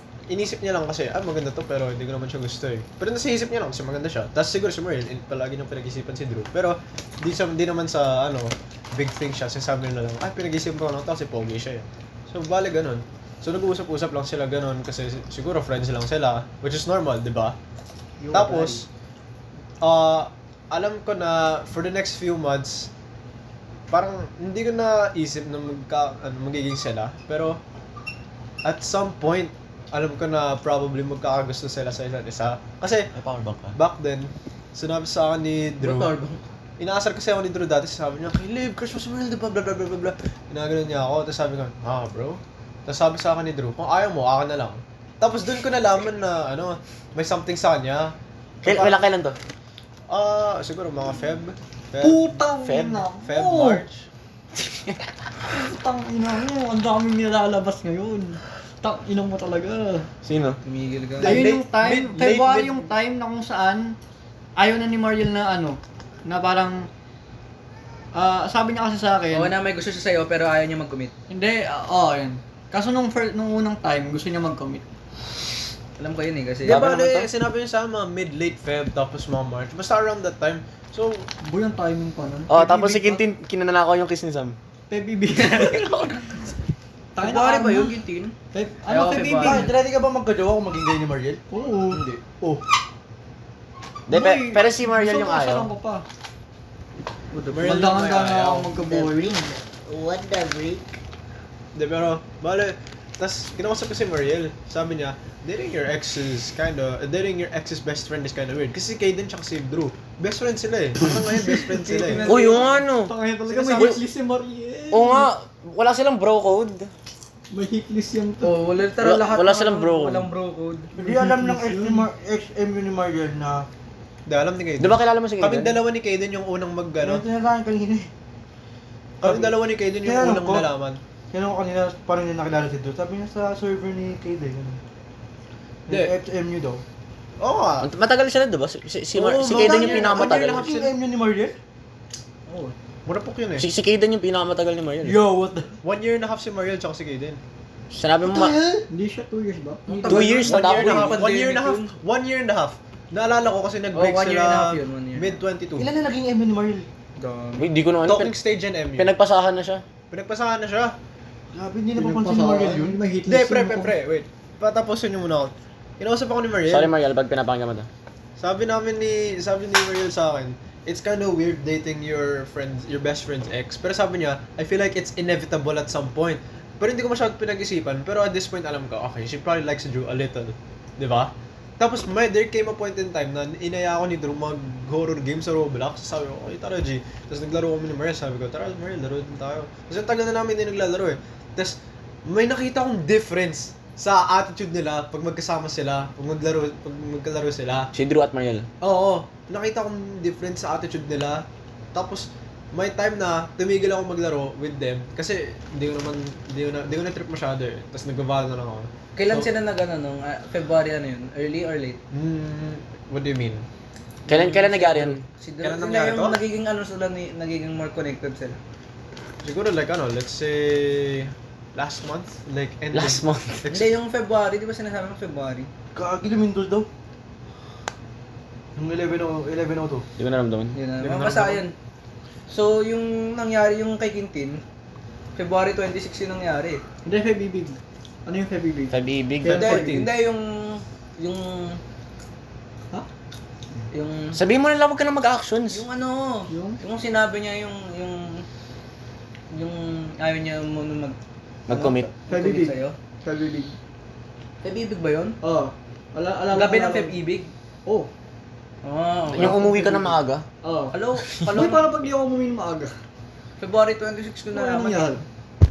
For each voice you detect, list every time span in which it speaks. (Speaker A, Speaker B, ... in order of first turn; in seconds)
Speaker A: 0.3-17.6, 18.3-18.9, 19.8-22.9, 23.9-27.6, 28.6-33.1, 33.7-36.1, 36.8-49.0, 50.1-52.4, 53.2-54.0, 61.2-62.9, 76.6-81.3, 97.5-98.7, 101.7-112.3, 113.5-114.0, 124.2-127.2, 129.2-131.0, 135.9-136.1, 137.4-137.9, 139.1-140.9, 143.1-143.7, 145.8-147.4, 150.0-155.9, 158.0-159.1, 160.1-161.0, 163.2-166.9, 168.4-197.9, 198.8-209.5, 212.1-213.6, 215.6-216.4, 219.4-223.9, 231.0-231.6
Speaker B: 18.2-18.8, 52.0-53.8, 55.5-60.1, 61.2-64.0, 64.5-66.9, 68.1-69.5, 71.3-74.8, 81.4-83.2, 84.9-86.2, 87.2-88.0, 88.5-89.7, 91.5-92.0, 94.1-96.0, 97.4-99.6, 112.1-115.3, 117.5-118.7, 121.0-122.1, 148.2-150.0, 161.9-163.9, 237.0-240.1, 246.5-246.8, 251.7-253.7, 255.4-257.1, 259.4-262.9, 264.5-265.2
Speaker C: 33.1-33.8, 48.6-49.4, 52.6-53.0, 54.6-55.0, 60.2-60.6, 76.6-77.3, 82.5-84.6, 94.1-95.7, 99.9-100.8, 112.2-113.1, 114.9-116.9, 119.0-120.3, 124.8-125.8, 137.8-140.8, 143.6-145.3, 147.9-148.6, 150.1-151.2, 157.6-158.3, 159.0-159.8, 166.7-167.9, 197.9-198.7, 214.3-215.2, 222.9-223.6, 230.2-230.8, 238.9-240.1, 244.3-245.8, 251.7-252.1, 259.3-260.4, 261.3-261.7
Speaker D: 35.8-36.4, 60.6-61.5, 69.3-71.1, 76.0-76.9, 87.2-88.3, 88.9-89.7, 91.9-92.2, 111.7-112.8, 118.4-120.9, 142.5-142.7, 149.9-151.9, 153.9-155.4, 157.2-157.7, 209.1-212.0, 214.3-218.6, 223.7-225.7, 230.7-231.7, 232.5-234.6, 235.3-236.8, 239.5-241.8, 243.9-244.4, 245.7-248.4, 249.5-251.2, 252.2-252.9, 254.6-255.3, 256.5-257.5, 258.8-259.6, 260.9-261.8, 263.6-265.2
Speaker E: 89.2-91.4, 121.0-123.7, 127.0-128.1, 129.2-130.7, 131.3-134.8, 135.9-136.8, 139.4-141.6, 145.0-145.7, 155.8-156.8, 161.5-163.0, 225.9-226.9, 228.7-230.1